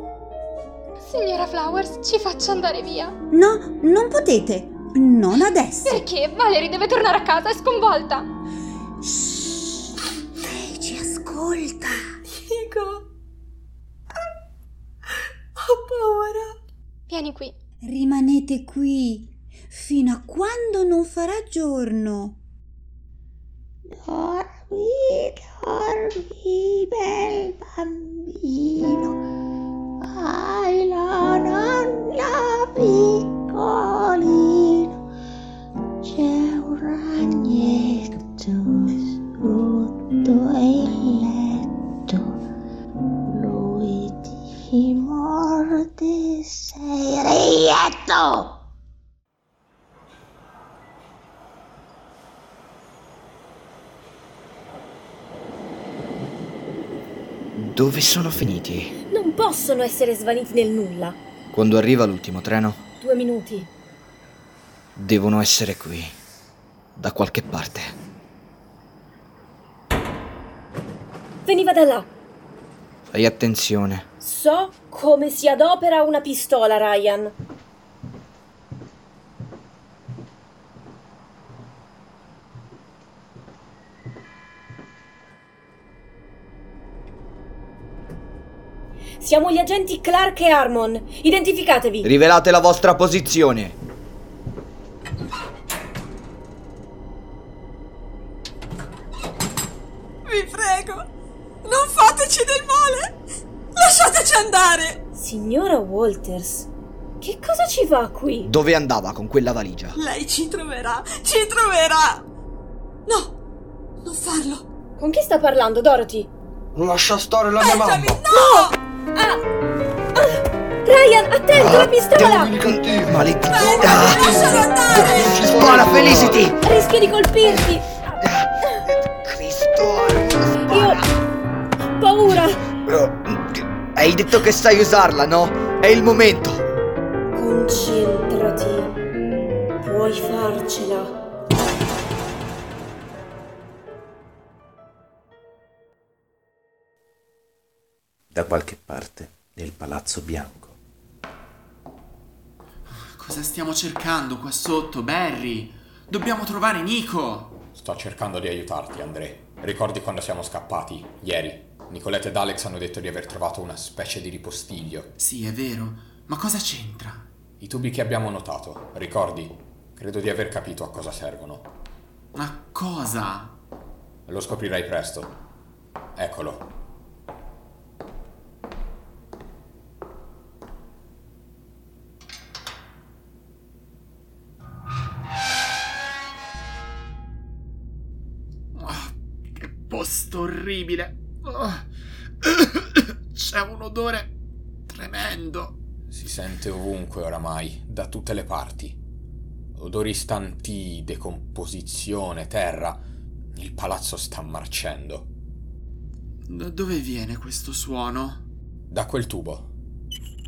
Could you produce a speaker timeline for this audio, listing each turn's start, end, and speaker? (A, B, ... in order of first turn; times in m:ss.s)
0:01.0-0:03.2 A
0:03.3-0:06.0 B
0:05.8-0:08.3 A
0:10.8-0:11.9 B
0:12.3-0:13.1 C
0:15.6-0:16.6 C
0:17.1-0:17.5 A
0:17.8-0:22.4 B
0:23.9-0:29.2 D
0:30.0-0:35.0 D
0:36.0-0:42.4 D
0:43.3-0:48.6 D
0:57.6-0:58.9 E
0:59.1-1:01.2 F
1:01.5-1:02.8 E
1:03.0-1:03.7 F
1:05.0-1:06.2 E
1:07.0-1:08.0 E
1:11.4-1:12.1 F
1:13.1-1:14.1 E
1:14.2-1:17.3 F
1:29.2-1:32.1 F
1:32.0-1:33.8 E
1:40.3-1:41.0 C
1:41.7-1:43.0 C
1:43.8-1:45.0 C
1:45.1-1:46.7 F
1:47.2-1:48.5 F
1:48.4-1:50.0 E
1:50.0-1:52.2 C
1:54.1-1:54.6 C
1:55.0-1:56.3 F
1:56.8-1:58.2 G
1:57.6-1:58.7 C
1:58.3-1:59.4 F
2:00.2-2:02.5 F
2:01.6-2:03.3 G
2:02.2-2:04.6 E
2:03.5-2:05.4 C
2:03.8-2:06.5 G
2:05.2-2:06.6 E
2:06.6-2:08.2 F
2:09.3-2:10.5 E
2:10.7-2:11.0 F
2:12.0-2:12.6 F
2:12.9-2:16.6 E
2:17.4-2:18.9 F
2:19.8-2:21.1 F
2:28.3-2:30.8 H
2:32.9-2:37.6 I
2:37.8-2:45.1 J
2:45.2-2:47.3 I
2:47.6-2:51.7 J
2:52.4-2:53.6 I
2:54.3-2:55.3 J
2:56.2-2:56.7 J
3:08.8-3:11.9 I
3:12.4-3:14.3 I
3:14.9-3:15.8 I
3:16.1-3:19.0 J
3:19.8-3:25.3 J
3:26.5-3:28.4 I
3:28.9-3:29.7 J